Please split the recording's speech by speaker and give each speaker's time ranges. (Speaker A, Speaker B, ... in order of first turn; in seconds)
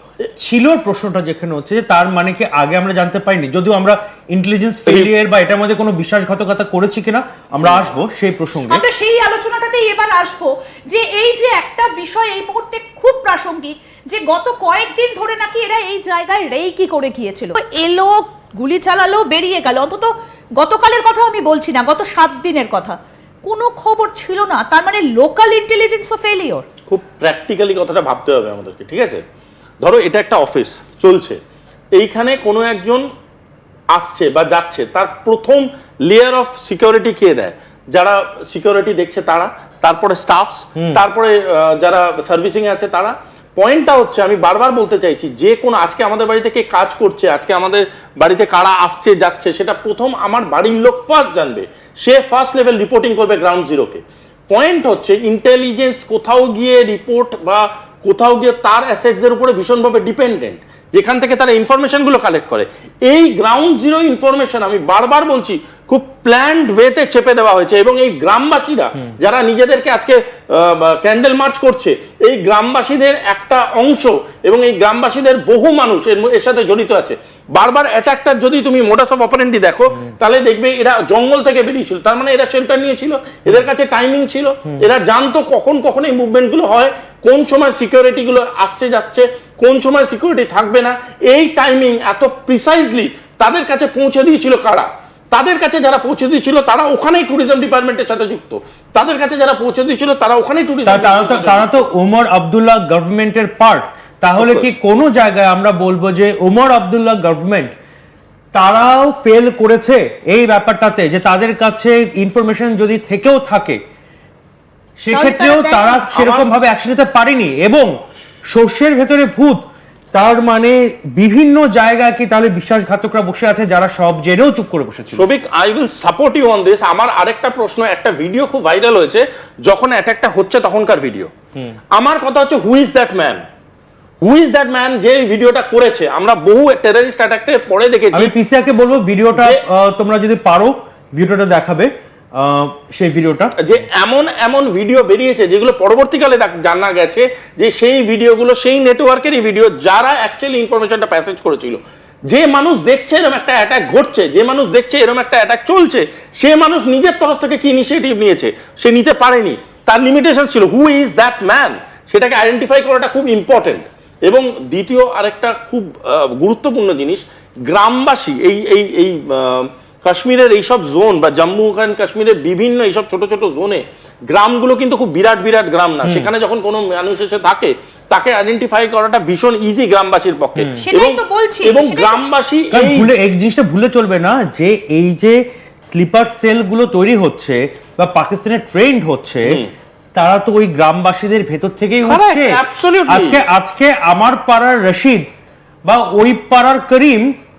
Speaker A: 0.4-8.8, 40.8-41.0, 100.8-107.7, 108.5-113.8, 115.0-117.9, 118.5-119.6, 120.1-125.2, 138.1-143.5, 176.0-176.3, 182.7-189.6, 190.2-195.2, 195.8-197.3
Speaker B: 8.7-26.6, 115.1-116.3, 180.8-182.2
Speaker C: 26.9-29.2, 29.8-31.4, 31.9-33.0, 33.9-101.9, 104.4-104.7, 116.2-116.5, 125.1-131.3, 131.9-133.4, 134.2-138.3, 139.3-139.6, 143.6-183.1, 189.4-189.7, 192.0-193.4